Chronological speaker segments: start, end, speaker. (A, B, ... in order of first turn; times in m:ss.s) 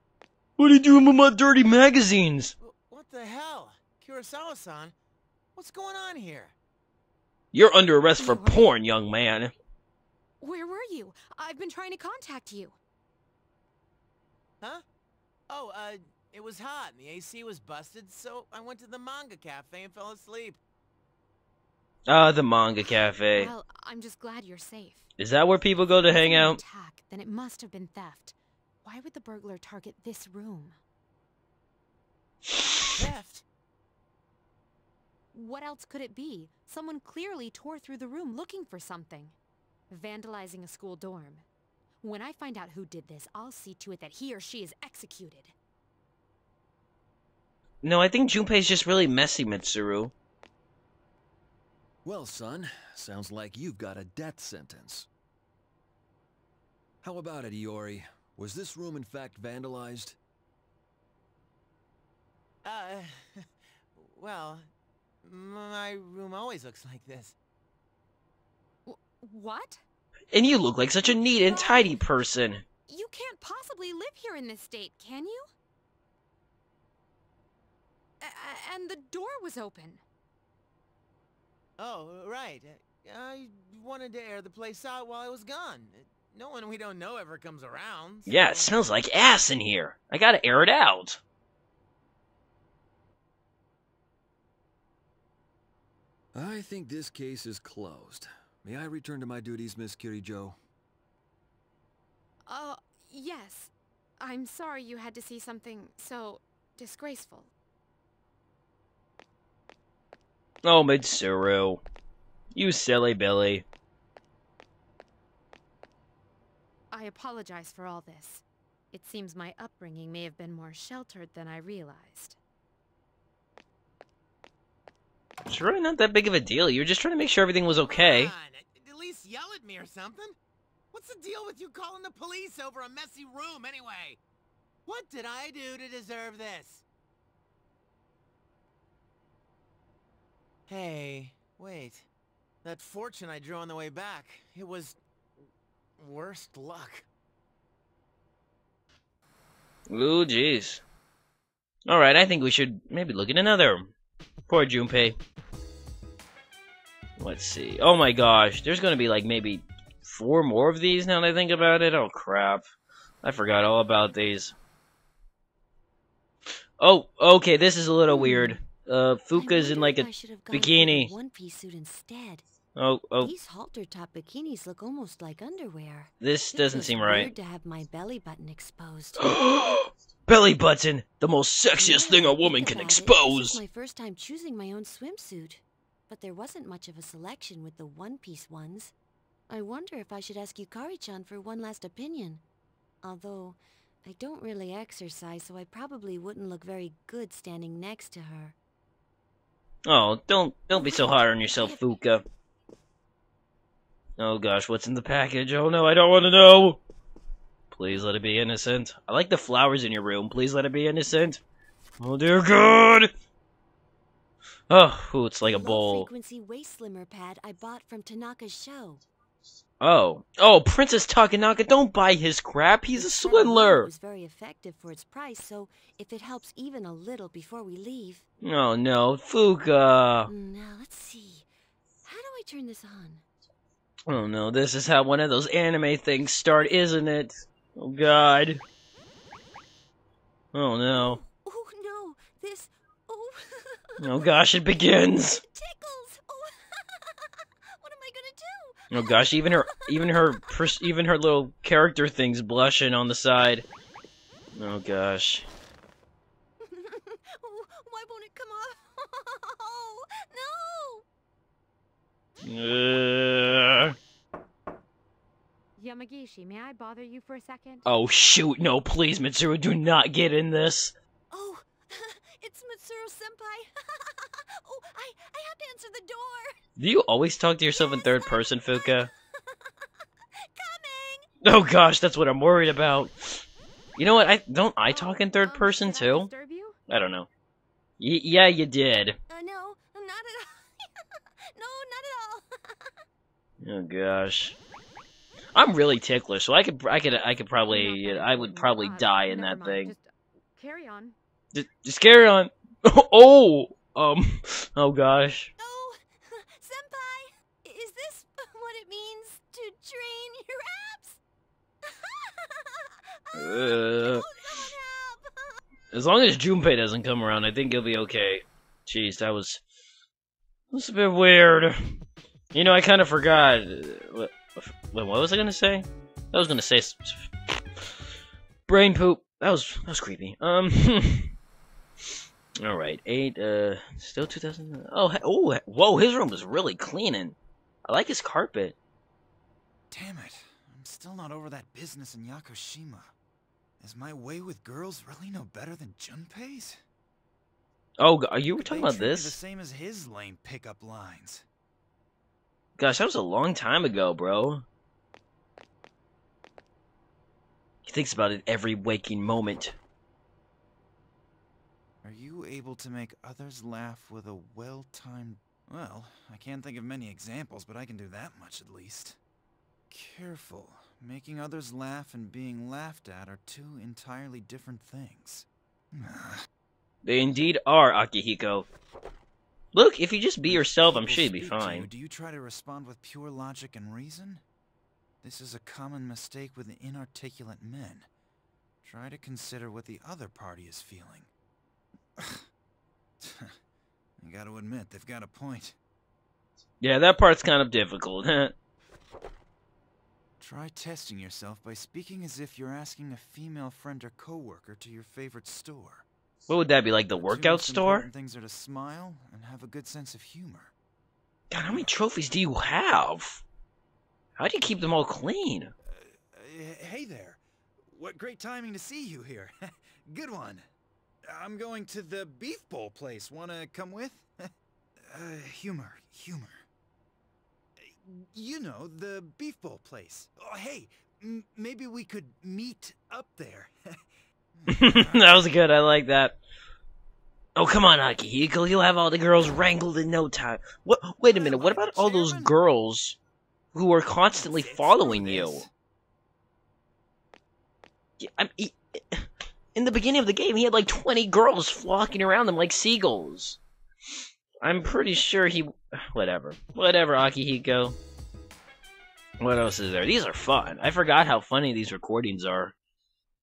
0:00.6-0:02.5 A
0:02.6-0:05.0 B
0:05.6-0:06.6 B
0:07.5-0:09.5 A
0:08.2-0:08.7 C
0:10.4-0:12.8 C
0:15.5-0:20.6 B
0:22.1-0:23.5 A
0:23.3-0:25.1 C
0:25.2-0:26.6 A
0:26.1-0:30.8 C
0:33.0-0:33.4 B
0:35.3-0:39.4 C
0:39.9-0:41.5 C
0:42.0-0:45.5 C
0:47.8-0:50.1 A
0:52.0-0:55.1 D
0:57.0-1:00.2 D
1:02.6-1:04.7 B
1:05.2-1:07.4 B
1:08.9-1:09.8 C
1:10.3-1:12.6 A
1:11.1-1:12.0 C
1:12.9-1:15.4 C
1:18.2-1:20.0 C
1:21.8-1:28.8 B
1:28.3-1:31.2 A
1:36.4-1:40.6 D
1:42.5-1:47.5 C
1:50.6-1:51.8 A
1:52.5-1:53.6 A
1:56.9-2:02.4 C
2:05.5-2:08.3 A
2:07.8-2:10.4 B
2:10.9-2:14.2 B
2:14.9-2:16.8 B
2:20.7-2:22.1 B
2:22.6-2:25.0 B
2:26.0-2:27.1 B
2:29.9-2:30.8 A
2:31.9-2:33.9 A
2:34.5-2:35.2 A
2:37.2-2:42.6 A
2:43.2-2:44.5 A
2:46.8-2:51.1 A
2:48.1-2:48.6 E
2:49.4-2:52.4 E
2:52.8-2:53.3 A
2:53.2-2:59.4 E
2:56.2-2:57.3 A
2:59.2-3:03.6 A
3:01.8-3:08.9 E
3:09.5-3:12.4 E
3:13.0-3:18.6 E
3:19.9-3:22.2 A
3:20.7-3:22.0 E
3:24.2-3:26.8 A
3:27.7-3:31.4 A
3:32.0-3:33.1 A
3:34.7-3:36.1 A
3:35.4-3:39.0 E
3:39.8-3:43.9 A
3:43.0-3:48.3 E
3:48.4-3:50.3 A
3:50.3-3:51.5 E
3:52.0-3:53.2 E
3:54.1-3:58.6 A
4:00.5-4:01.2 A
4:00.9-4:04.3 E
4:04.0-4:05.4 A
4:05.4-4:10.6 E
4:08.9-4:13.7 A
4:14.6-4:15.5 A
4:16.6-4:21.0 E
4:22.4-4:24.0 A
4:25.8-4:27.8 C
4:27.9-4:30.9 A
4:31.3-4:36.6 E
4:36.8-4:39.1 A
4:37.7-4:39.9 E
4:40.6-4:41.3 E
4:41.4-4:43.4 A
4:44.0-4:46.3 A
4:44.9-4:46.8 C
4:46.9-4:47.3 A
4:48.0-4:49.2 A
4:49.3-4:52.9 E
4:53.6-4:54.6 A
4:55.5-4:59.9 A
4:57.7-5:01.2 C
5:01.5-5:05.5 A
5:05.6-5:11.2 E
5:11.8-5:15.6 E
5:13.4-5:14.3 A
5:15.9-5:19.6 A
5:20.7-5:21.9 A
5:22.5-5:27.9 A
5:28.7-5:31.3 A
5:32.6-5:38.8 A
5:39.9-5:43.1 F
5:43.8-5:46.8 F
5:48.0-5:49.4 A
5:48.5-5:51.5 F
5:52.8-5:54.6 A
5:57.9-5:59.8 A
6:02.0-6:09.2 F
6:09.9-6:16.4 F
6:17.0-6:18.7 A
6:19.7-6:21.9 A
6:20.5-6:24.4 F
6:25.2-6:28.1 F
6:28.8-6:31.3 F
6:32.2-6:32.4 F
6:33.2-6:33.6 F
6:34.2-6:35.8 F
6:36.8-6:38.6 A
6:40.4-6:46.1 F
6:46.5-6:48.1 A
6:47.1-6:50.7 F
6:51.5-6:53.4 A
6:54.4-6:55.7 A
6:55.9-6:59.5 F
7:00.1-7:00.6 F
7:01.3-7:04.3 F
7:05.1-7:06.6 F
7:07.8-7:13.7 F
7:14.6-7:15.5 F
7:14.7-7:16.4 A
7:17.6-7:23.2 A
7:21.3-7:22.6 F
7:23.7-7:25.7 A
7:24.3-7:25.7 F
7:28.2-7:33.6 A
7:34.6-7:38.0 A
7:39.4-7:42.7 A